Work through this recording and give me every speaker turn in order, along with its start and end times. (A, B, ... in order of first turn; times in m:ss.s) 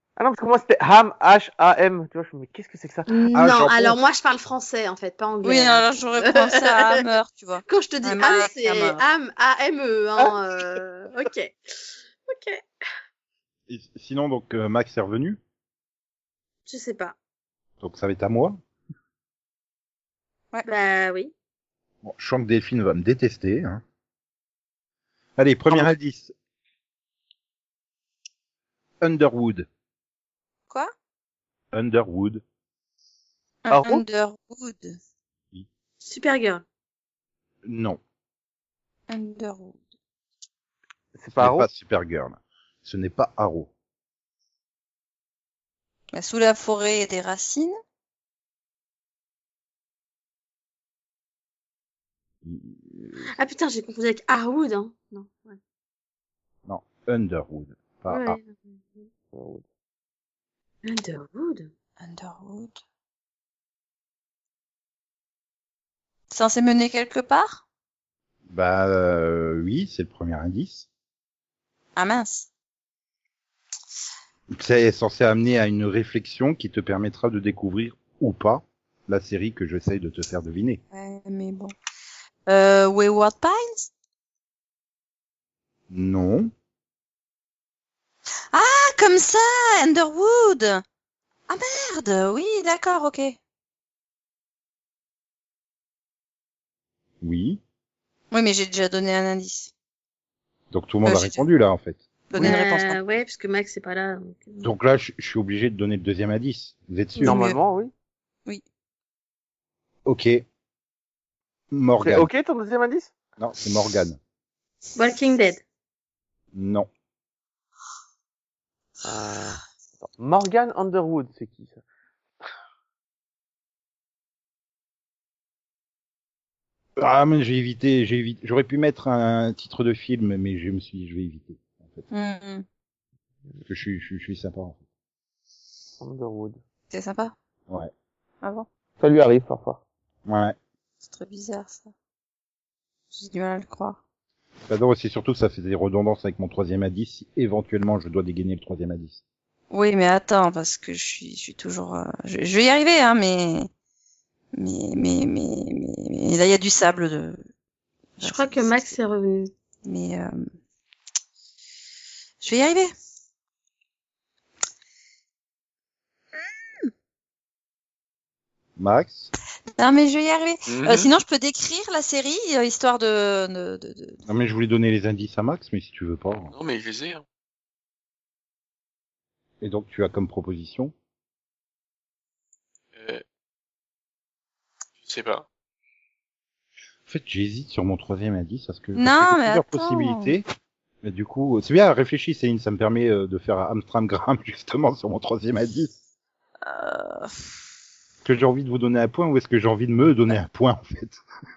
0:00.2-0:03.1 A
0:03.1-0:07.0 B
0:03.3-0:04.0 C
0:05.4-0:09.0 D
0:07.7-0:11.6 B
0:12.3-0:12.6 B
0:13.7-0:15.4 C
0:16.7-0:17.2 B
0:17.8-0:18.6 C
0:20.6-0:21.3 B
0:22.0-0:23.8 C
0:25.4-0:26.3 C
0:29.0-0:29.7 C
0:31.7-0:32.4 C
0:33.7-0:35.0 D
0:33.7-0:34.0 A
0:36.0-0:36.6 B
0:37.6-0:38.0 C
0:39.1-0:39.8 D
0:41.1-0:41.7 A
0:41.4-0:43.7 C
0:46.1-0:47.7 D
0:52.4-0:53.3 C
0:53.4-0:55.6 B
0:56.7-0:58.4 C
0:58.1-0:59.1 B
0:59.3-0:59.6 A
1:00.8-1:01.7 B
1:02.0-1:02.8 D
1:06.3-1:07.6 D
1:08.5-1:10.9 C
1:12.0-1:12.5 D
1:14.5-1:20.8 C
1:20.9-1:21.7 D
1:22.5-1:23.9 D
1:25.9-1:26.5 C
1:28.5-1:30.8 D
1:31.5-1:33.4 D
1:37.2-1:37.6 C
1:38.3-1:39.7 D
1:40.7-1:42.0 C
1:41.0-1:41.4 D
1:42.3-1:43.0 D
1:42.4-1:44.7 B
1:44.6-1:47.4 C
1:47.2-1:47.9 A
1:47.2-1:47.6 D
1:50.0-1:50.4 C
1:51.7-1:52.3 C
1:52.0-1:53.1 A
1:53.4-1:54.2 C
1:55.0-1:55.6 B
1:56.5-1:56.9 C
1:59.0-2:01.8 A
2:07.0-2:12.0 C
2:12.1-2:12.6 D
2:13.7-2:14.8 C
2:16.0-2:16.6 A
2:16.9-2:17.4 D
2:18.4-2:18.7 D
2:19.0-2:19.8 A
2:20.3-2:20.6 C
2:21.0-2:21.9 D
2:23.1-2:24.0 D
2:24.7-2:29.2 C
2:29.7-2:33.7 D
2:34.6-2:37.4 D
2:38.2-2:39.0 D
2:38.2-2:39.5 B
2:39.8-2:40.5 D
2:42.4-2:42.9 D
2:48.8-2:49.3 C
2:49.8-2:54.2 D
2:50.7-2:51.1 E
2:54.3-2:56.5 C
2:56.5-2:57.2 E
2:59.6-3:00.9 C
3:02.9-3:03.2 E
3:05.0-3:05.5 E
3:07.1-3:10.5 C
3:09.0-3:10.3 D
3:11.0-3:15.9 C
3:16.6-3:17.4 D
3:18.2-3:21.2 C